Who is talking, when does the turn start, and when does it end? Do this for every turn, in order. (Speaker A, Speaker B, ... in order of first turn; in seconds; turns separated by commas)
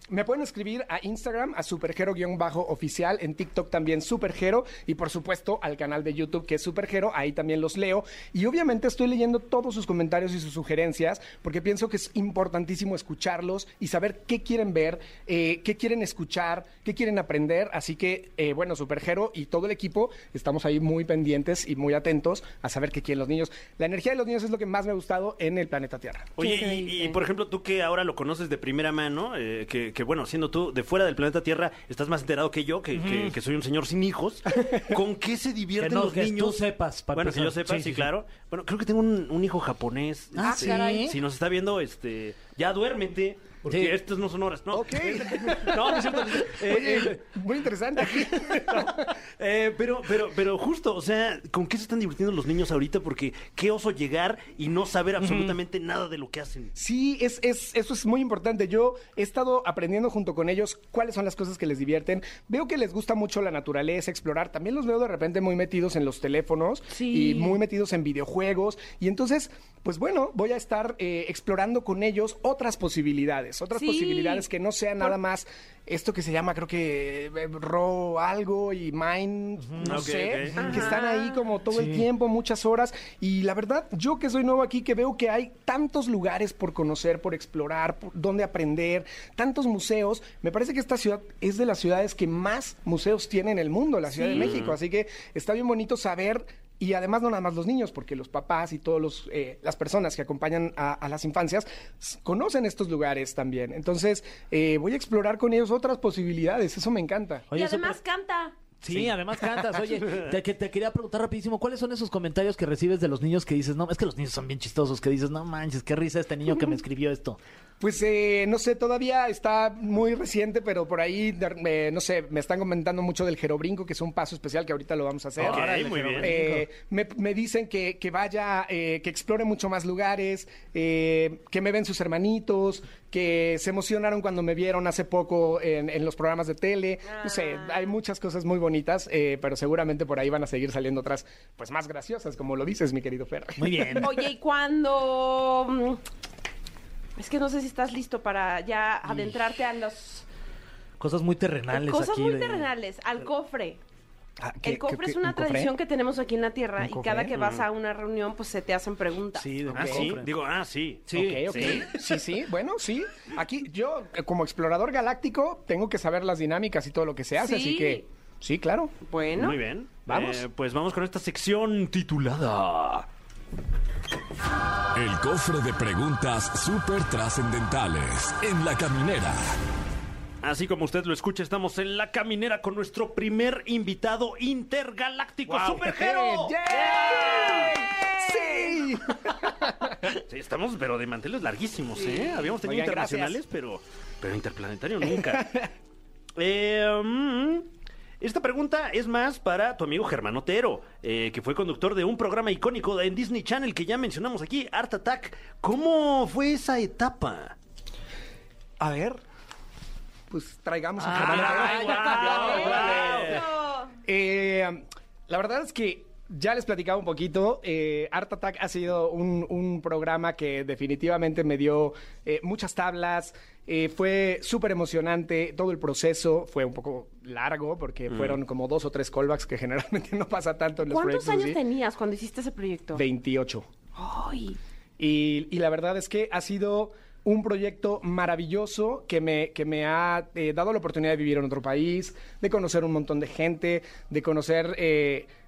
Speaker A: 0.1-26.4, Speaker B: 26.4-47.2, Speaker C: 26.4-27.1, Speaker D: 32.9-33.4, Speaker D: 35.8-38.1, Speaker D: 40.4-41.2, Speaker C: 40.4-41.1, Speaker D: 43.7-44.0, Speaker A: 44.7-49.1, Speaker B: 48.1-56.7, Speaker D: 55.2-55.5, Speaker A: 56.8-107.5, Speaker C: 66.9-67.6, Speaker C: 73.7-74.5, Speaker D: 79.7-80.9, Speaker B: 79.8-80.7, Speaker C: 80.6-81.4, Speaker D: 81.7-82.1, Speaker C: 94.1-94.5, Speaker B: 94.3-94.8, Speaker D: 107.5-108.0, Speaker C: 107.5-108.6, Speaker D: 108.8-117.4, Speaker A: 117.8-144.1, Speaker D: 125.4-126.7, Speaker B: 125.4-126.3, Speaker C: 137.1-137.9, Speaker D: 143.6-144.2, Speaker C: 144.0-146.0, Speaker C: 147.2-150.3, Speaker D: 151.0-152.7, Speaker C: 151.7-153.8, Speaker A: 154.4-155.7, Speaker C: 154.6-159.5, Speaker A: 156.8-157.3, Speaker B: 157.3-157.7, Speaker D: 159.3-160.3, Speaker A: 159.7-160.2, Speaker B: 159.7-161.9, Speaker D: 161.1-161.9, Speaker A: 161.1-168.9, Speaker C: 167.4-168.1, Speaker C: 169.1-169.6, Speaker B: 169.3-173.1, Speaker A: 170.1-170.5, Speaker E: 174.9-179.6, Speaker B: 180.4-187.7, Speaker A: 185.5-190.1, Speaker C: 188.3-188.7, Speaker B: 190.3-195.6, Speaker C: 192.0-192.4, Speaker A: 192.6-193.4, Speaker A: 195.3-195.6, Speaker B: 196.4-197.7, Speaker B: 198.2-207.6, Speaker A: 208.8-209.2, Speaker A: 210.3-213.4, Speaker D: 211.0-213.1, Speaker B: 211.1-213.4, Speaker C: 212.0-213.9, Speaker A: 214.0-231.6, Speaker B: 228.1-228.4, Speaker C: 230.8-233.0, Speaker A: 232.9-233.7, Speaker C: 234.0-234.6, Speaker A: 235.0-245.3